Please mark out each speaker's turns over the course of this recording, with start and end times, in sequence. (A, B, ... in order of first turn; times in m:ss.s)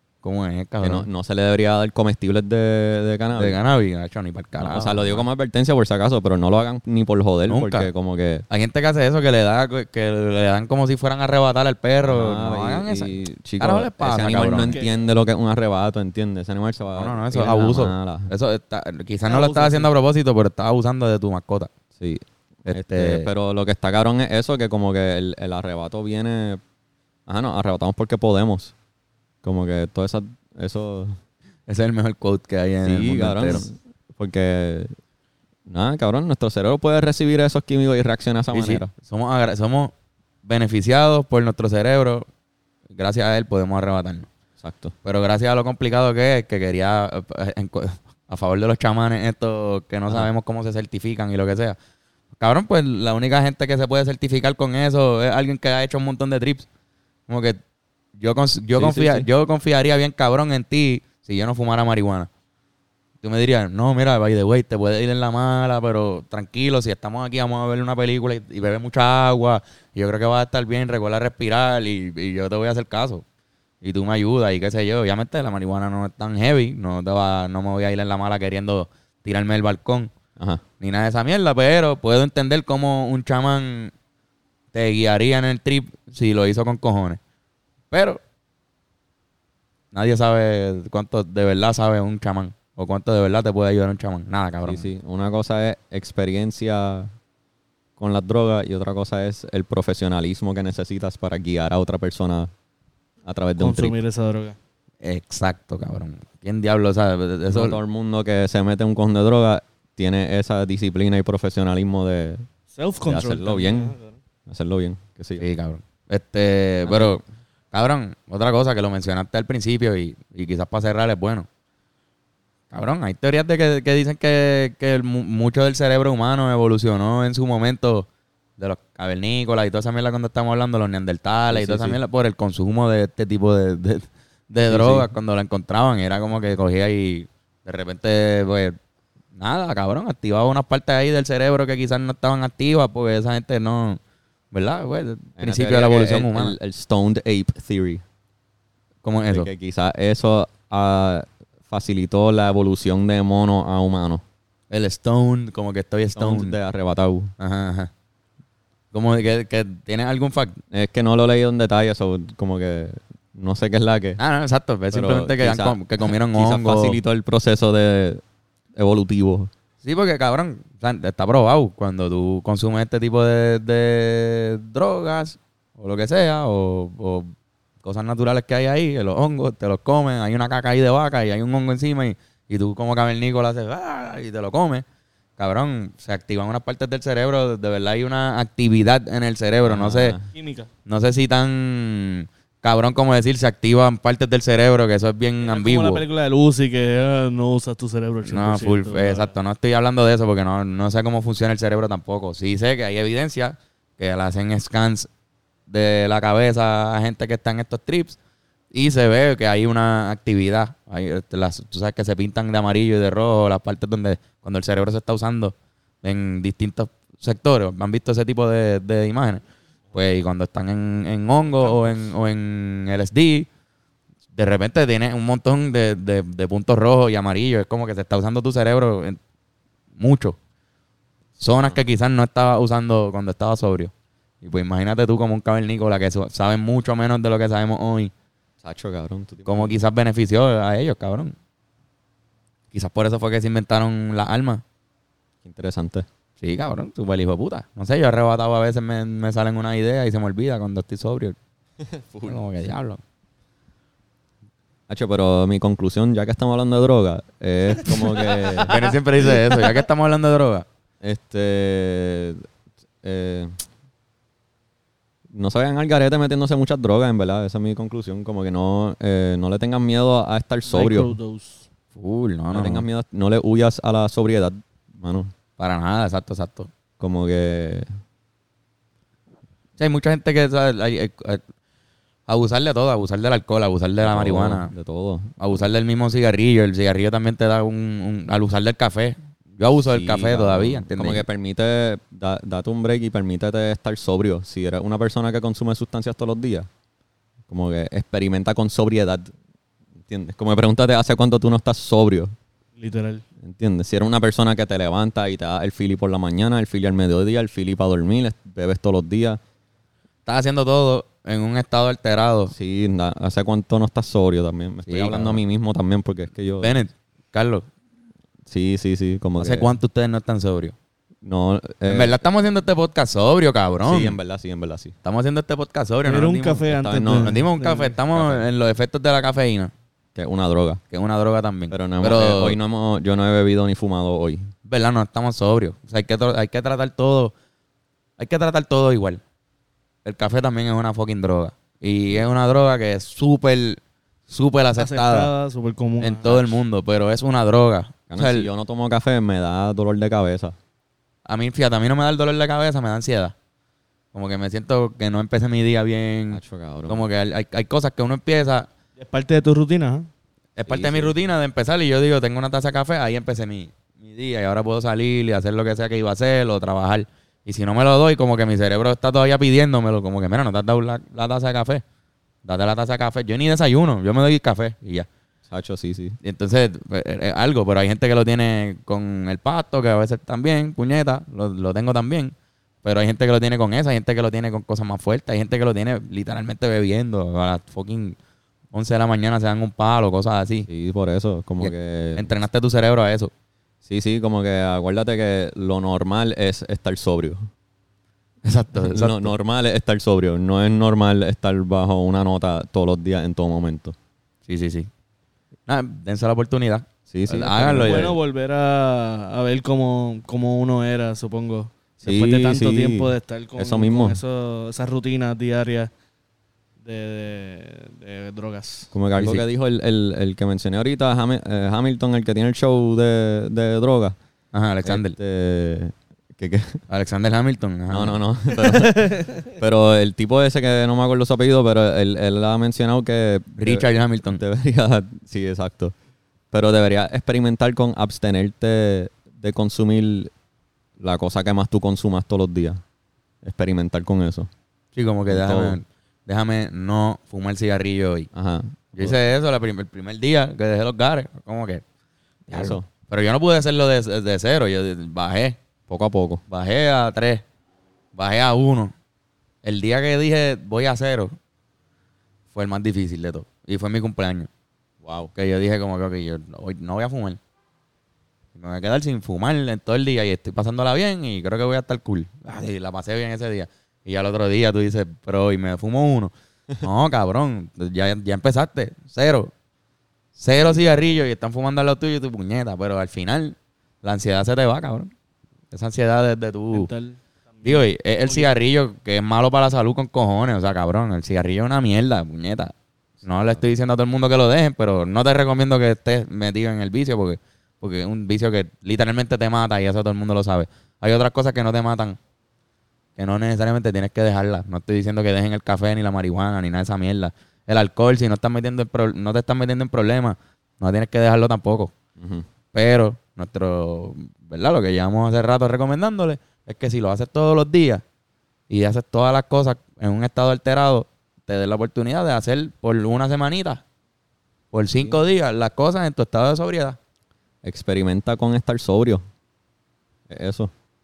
0:00.2-0:01.1 A
0:00.8-0:03.6 B
0:03.4-0:05.2 A
0:04.6-0:08.4 B
0:07.5-0:07.9 A
0:08.5-0:14.8 A
0:12.0-0:18.3 B
0:14.6-0:14.9 C
0:17.0-0:21.7 A
0:19.2-0:19.9 C
0:22.0-0:26.6 B
0:22.6-0:23.3 A
0:27.3-0:28.7 B
0:29.4-0:31.2 B
0:31.7-0:33.7 A
0:32.8-0:35.0 B
0:35.7-0:38.9 B
0:38.5-0:39.9 A
0:40.4-0:42.3 A
0:42.9-0:44.3 A
0:44.6-0:44.9 B
0:45.0-0:51.8 A
0:52.4-0:56.6 A
0:57.3-0:57.6 A
0:58.2-1:02.3 A
0:58.7-0:59.3 B
1:03.2-1:13.2 A
1:13.8-1:20.1 A
1:20.4-1:20.6 B
1:20.8-1:23.9 A
1:24.7-1:27.2 A
1:27.9-1:28.2 A
1:29.9-1:34.9 A
1:34.6-1:37.1 B
1:38.0-1:42.5 B
1:43.2-1:44.0 B
1:43.6-1:44.6 C
1:45.0-1:47.8 A
1:47.5-1:52.4 B
1:52.7-1:54.2 C
1:53.0-1:53.9 B
1:54.5-1:55.4 B
1:55.4-2:01.5 A
1:56.8-1:57.2 B
2:02.7-2:08.1 A
2:08.6-2:18.8 A
2:11.5-2:12.0 B
2:14.7-2:15.1 B
2:19.4-2:24.0 A
2:24.5-2:26.6 A
2:25.4-2:28.0 B
2:29.0-2:29.5 A
2:29.3-2:34.2 B
2:34.7-2:36.6 A
2:36.2-2:37.3 B
2:37.4-2:37.9 A
2:38.9-2:40.6 A
2:40.7-2:44.2 B
2:44.2-2:47.0 A
2:44.9-2:48.2 B
2:48.8-2:49.5 B
2:49.8-2:57.3 A
2:57.8-3:04.8 A
3:05.4-3:10.2 A
3:09.6-3:10.3 B
3:10.3-3:10.7 C
3:10.9-3:16.0 A
3:15.4-3:19.3 C
3:18.2-3:25.1 A
3:25.7-3:28.2 A
3:28.7-3:43.5 A
3:44.3-3:49.2 A
3:50.0-3:50.4 A
3:51.4-3:58.1 A
3:58.6-3:59.8 B
3:59.4-4:01.3 A
4:02.7-4:04.6 A
4:05.4-4:06.1 B
4:06.4-4:11.4 A
4:11.9-4:12.4 B
4:12.2-4:13.0 A
4:14.9-4:18.8 B
4:18.2-4:18.4 C
4:18.6-4:20.6 A
4:21.0-4:22.5 B
4:23.0-4:23.6 B
4:25.3-4:31.1 B
4:30.7-4:31.7 C
4:32.0-4:32.8 A
4:32.5-4:35.3 B
4:35.6-4:36.7 A
4:37.0-4:38.0 B
4:39.8-4:41.4 A
4:42.3-4:44.7 A
4:44.0-4:45.6 B
4:45.4-4:51.2 A
4:49.8-4:56.7 B
4:57.5-4:59.3 B
5:00.1-5:02.3 B
5:02.8-5:03.2 C
5:03.4-5:09.4 B
5:10.2-5:12.5 A
5:12.5-5:16.8 B
5:14.9-5:15.4 A
5:16.6-5:17.6 A
5:18.5-5:19.7 B
5:19.4-5:20.7 A
5:21.2-5:22.2 B
5:21.9-5:24.2 A
5:23.8-5:25.0 B
5:25.0-5:29.7 A
5:26.0-5:27.9 C
5:26.7-5:27.4 B
5:28.1-5:28.4 B
5:30.1-5:30.8 B
5:30.9-5:32.6 A
5:31.7-5:34.5 B
5:34.7-5:37.3 A
5:38.2-5:39.2 A
5:40.0-5:45.3 A
5:44.8-5:46.6 C
5:46.0-5:48.5 A
5:48.1-5:50.6 B
5:51.3-5:53.3 A
5:54.1-5:58.7 A
5:56.3-5:57.0 B
5:59.0-6:00.1 C
6:00.6-6:11.8 A
6:00.7-6:01.2 B
6:12.4-6:15.1 A
6:15.5-6:16.2 B
6:16.2-6:28.2 A
6:28.7-6:30.7 A
6:30.7-6:32.4 B
6:31.6-6:33.3 A
6:33.8-6:37.5 B
6:38.4-6:39.3 A
6:38.7-6:43.9 B
6:44.5-6:44.9 A
6:45.7-6:48.2 A
6:47.1-6:48.1 B
6:47.8-6:55.9 C
6:52.0-6:54.2 B
6:56.8-6:58.9 C
6:58.9-7:04.2 B
6:59.2-6:59.4 A
7:04.5-7:05.2 A
7:04.8-7:06.8 B
7:06.9-7:08.2 A
7:07.9-7:15.9 B
7:08.6-7:09.4 C
7:13.6-7:14.4 A
7:16.5-7:20.3 B
7:21.0-7:22.8 B
7:23.4-7:24.5 B
7:24.9-7:28.3 A
7:25.3-7:25.8 B
7:28.3-7:29.2 B
7:29.0-7:31.8 A
7:32.5-7:32.9 B
7:32.5-7:35.6 A
7:35.9-7:36.4 B
7:36.5-7:37.4 A
7:38.1-7:38.9 A
7:39.6-7:41.4 A
7:42.5-7:44.5 A
7:45.0-7:45.3 B
7:45.3-7:47.4 A
7:48.6-7:59.5 A
8:00.4-8:05.1 A
8:05.7-8:06.9 A
8:06.7-8:08.5 C
8:07.6-8:12.7 A
8:13.2-8:22.2 A
8:13.2-8:13.8 B
8:23.2-8:31.9 A
8:32.2-8:32.4 B
8:32.7-8:38.0 A
8:38.7-8:43.8 A
8:44.7-8:47.0 A
8:47.6-8:49.2 B
8:50.3-8:50.7 B